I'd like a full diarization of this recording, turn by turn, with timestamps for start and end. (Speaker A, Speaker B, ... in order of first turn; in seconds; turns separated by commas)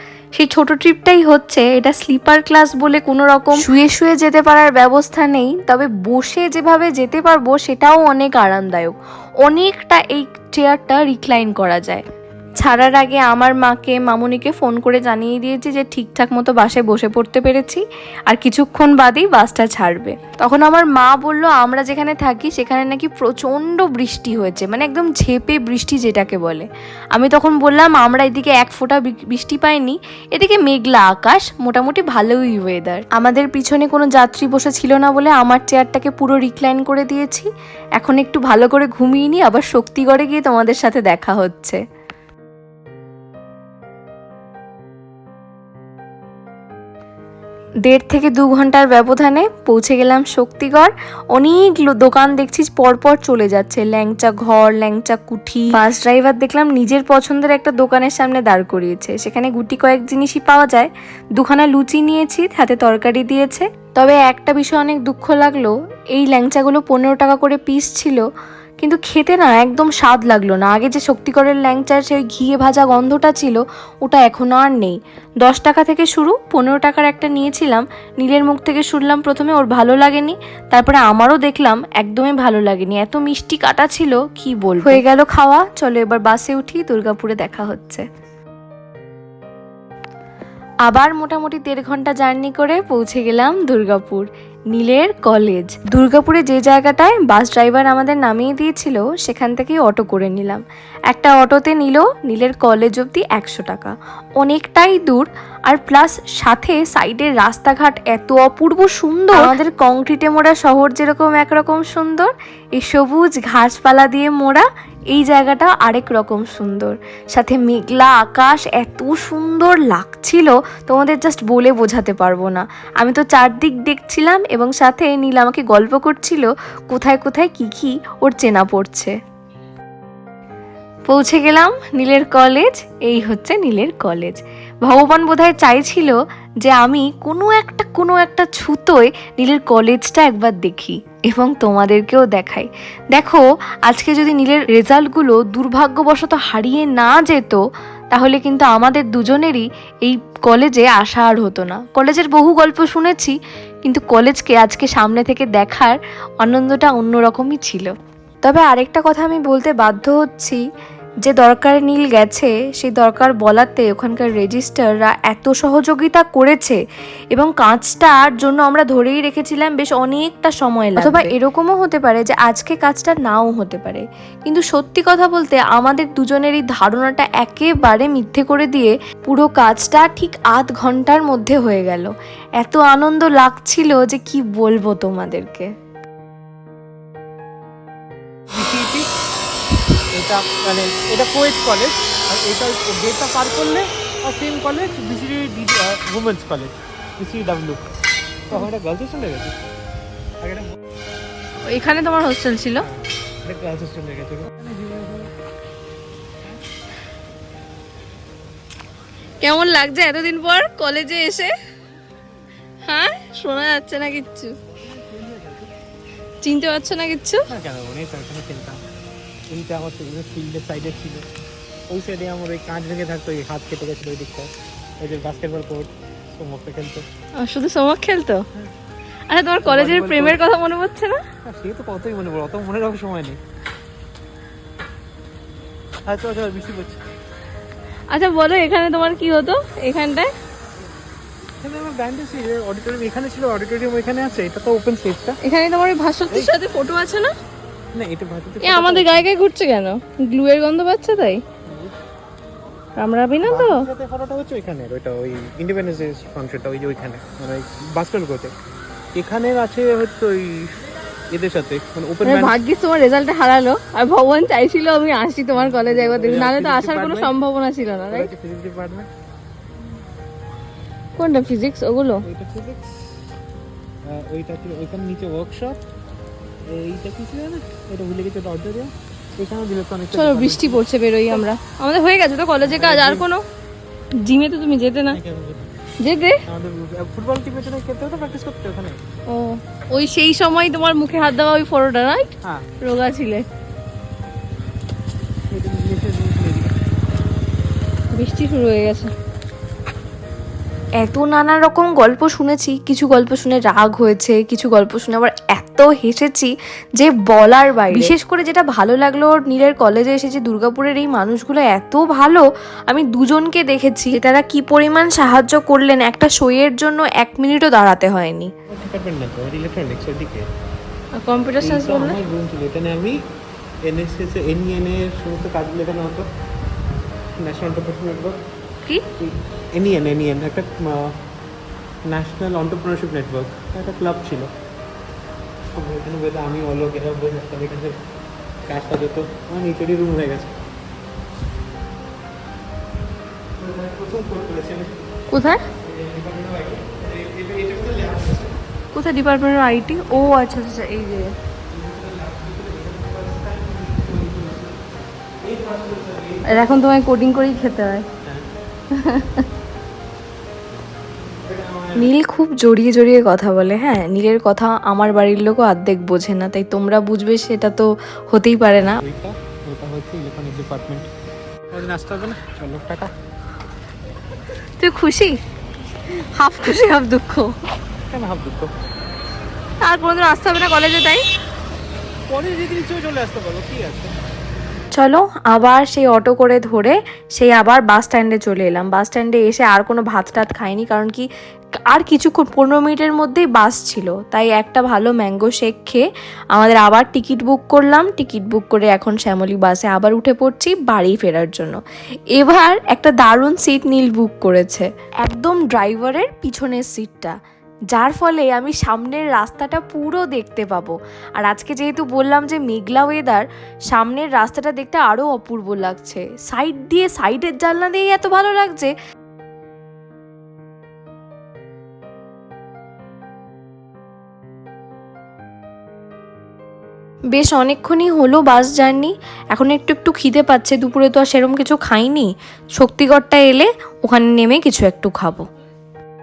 Speaker A: 0.3-12.0, Speaker A: 12.6-41.8, Speaker A: 47.8-68.2, Speaker A: 68.8-88.0, Speaker A: 90.8-129.1, Speaker A: 131.1-147.6, Speaker A: 148.1-160.6, Speaker A: 161.2-166.8, Speaker A: 167.3-185.7, Speaker B: 188.5-189.1, Speaker B: 190.1-197.8, Speaker B: 198.5-199.6, Speaker B: 200.4-200.8, Speaker C: 201.7-202.7, Speaker B: 202.8-205.3, Speaker C: 209.4-211.5, Speaker C: 212.8-214.5, Speaker B: 214.7-215.7, Speaker C: 216.4-217.4, Speaker B: 217.5-218.8, Speaker B: 219.5-221.2, Speaker B: 221.9-227.1, Speaker C: 227.4-228.4, Speaker C: 229.3-231.2, Speaker B: 229.6-230.4, Speaker B: 231.4-233.4, Speaker B: 236.1-237.0, Speaker C: 238.1-240.3, Speaker B: 241.6-245.4, Speaker C: 245.4-247.3, Speaker B: 247.9-249.3, Speaker C: 248.6-251.4, Speaker B: 251.7-251.9, Speaker C: 252.9-253.9, Speaker B: 253.4-258.5, Speaker B: 259.1-262.6, Speaker C: 262.2-268.3, Speaker B: 265.5-267.3, Speaker B: 268.1-269.1, Speaker C: 271.2-272.2, Speaker B: 272.2-272.9, Speaker B: 274.1-275.8, Speaker B: 276.7-280.9, Speaker C: 280.1-283.4, Speaker B: 282.6-283.3, Speaker C: 284.2-285.2, Speaker B: 285.1-285.7, Speaker C: 286.0-286.4, Speaker B: 286.4-289.0, Speaker C: 289.3-293.4, Speaker B: 292.4-292.7, Speaker B: 295.5-296.7, Speaker C: 298.1-299.1, Speaker A: 301.0-318.5, Speaker B: 318.7-320.4, Speaker C: 321.1-322.2, Speaker B: 321.6-323.2, Speaker B: 323.8-326.3, Speaker B: 327.4-328.4, Speaker B: 329.2-331.2, Speaker B: 332.1-334.5, Speaker B: 335.7-338.0, Speaker B: 338.7-340.5, Speaker B: 343.6-345.0, Speaker C: 345.3-345.6, Speaker B: 345.8-348.6, Speaker A: 348.9-351.2, Speaker B: 351.7-356.8, Speaker C: 356.4-358.1, Speaker B: 358.2-358.5, Speaker C: 358.9-359.3, Speaker B: 361.2-362.1, Speaker A: 361.9-369.0, Speaker B: 369.0-371.1, Speaker B: 371.7-373.1, Speaker A: 374.8-375.4, Speaker A: 376.3-377.5, Speaker B: 378.1-378.7, Speaker C: 379.8-381.2, Speaker B: 382.3-384.1, Speaker A: 384.9-391.3, Speaker A: 391.9-401.8, Speaker A: 402.3-407.4, Speaker A: 407.9-418.9, Speaker A: 427.3-435.4